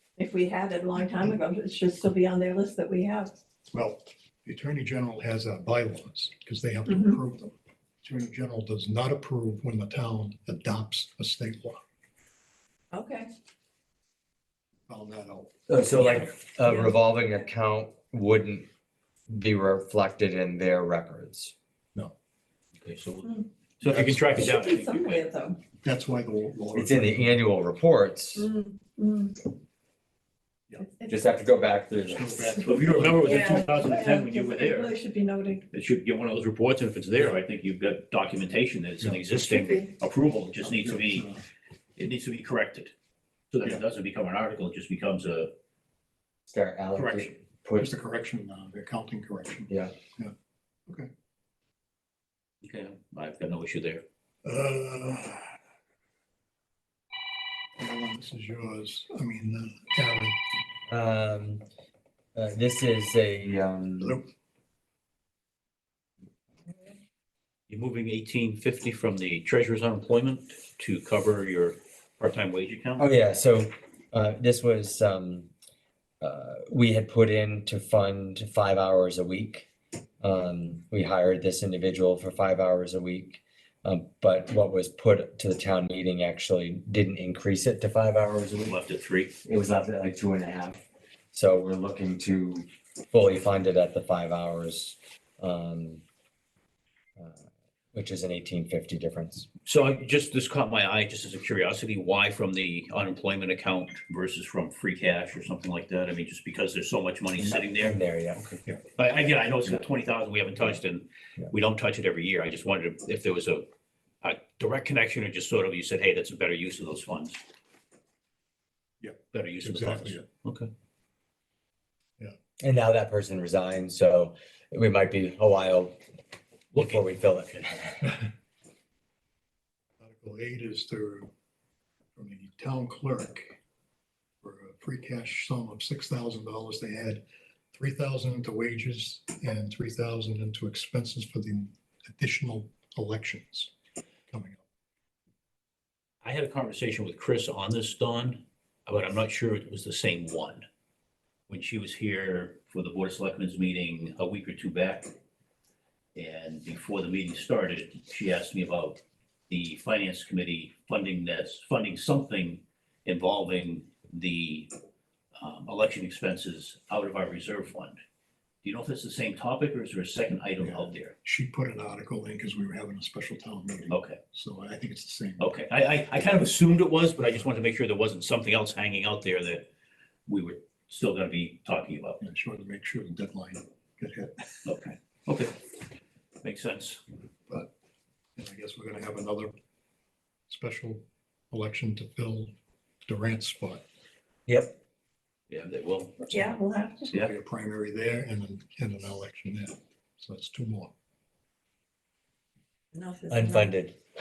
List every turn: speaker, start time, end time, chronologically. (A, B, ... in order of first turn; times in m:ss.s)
0:00.2-0:03.3 A
0:03.7-0:11.8 B
0:06.9-0:07.2 A
0:12.9-0:13.3 A
0:14.9-0:15.5 B
0:15.7-0:18.7 C
0:16.0-0:16.9 A
0:19.3-0:21.5 C
0:22.8-0:25.2 D
0:23.8-0:24.4 B
0:24.4-0:25.6 A
0:25.8-0:27.4 B
0:26.7-0:28.5 C
0:28.3-0:29.5 A
0:30.8-0:31.2 A
0:31.1-0:32.6 C
0:32.0-0:33.7 B
0:32.6-0:34.9 D
0:33.2-0:35.6 A
0:35.7-0:41.3 D
0:39.4-0:39.9 A
0:40.6-0:41.4 B
0:42.0-0:42.9 D
0:43.5-0:45.5 D
0:46.5-0:48.0 C
0:47.0-0:47.3 D
0:47.8-0:50.3 B
0:49.7-0:49.9 C
0:52.6-0:54.0 D
0:54.4-0:55.6 B
0:57.8-1:00.4 B
1:00.9-1:01.6 C
1:02.3-1:04.2 C
1:04.0-1:04.2 B
1:07.7-1:13.1 D
1:13.0-1:15.5 C
1:16.2-1:19.7 C
1:20.2-1:28.8 C
1:28.6-1:29.3 D
1:29.4-1:30.8 C
1:31.3-1:36.0 C
1:37.2-1:39.5 C
1:39.7-1:53.7 D
1:47.4-1:48.4 C
1:54.2-1:57.4 D
1:59.0-2:00.2 B
1:59.3-2:00.7 D
2:02.6-2:06.0 C
2:06.7-2:07.0 D
2:06.7-2:08.2 C
2:10.0-2:11.3 B
2:12.2-2:13.6 B
2:14.4-2:17.2 B
2:17.7-2:23.7 B
2:24.3-2:24.6 B
2:26.2-2:30.6 D
2:31.5-2:35.1 D
2:36.2-2:44.7 D
2:45.4-2:48.0 D
2:48.6-2:51.2 D
2:50.6-2:55.5 B
2:53.9-2:54.2 D
2:55.4-2:59.7 D
3:00.3-3:02.2 D
3:02.2-3:04.6 B
3:04.6-3:05.5 D
3:06.4-3:07.0 D
3:08.4-3:09.5 B
3:10.5-3:12.5 B
3:13.0-3:13.8 B
3:14.5-3:14.8 C
3:15.5-3:16.2 D
3:16.2-3:20.9 B
3:16.3-3:17.1 A
3:22.9-3:23.8 A
3:23.3-3:24.0 C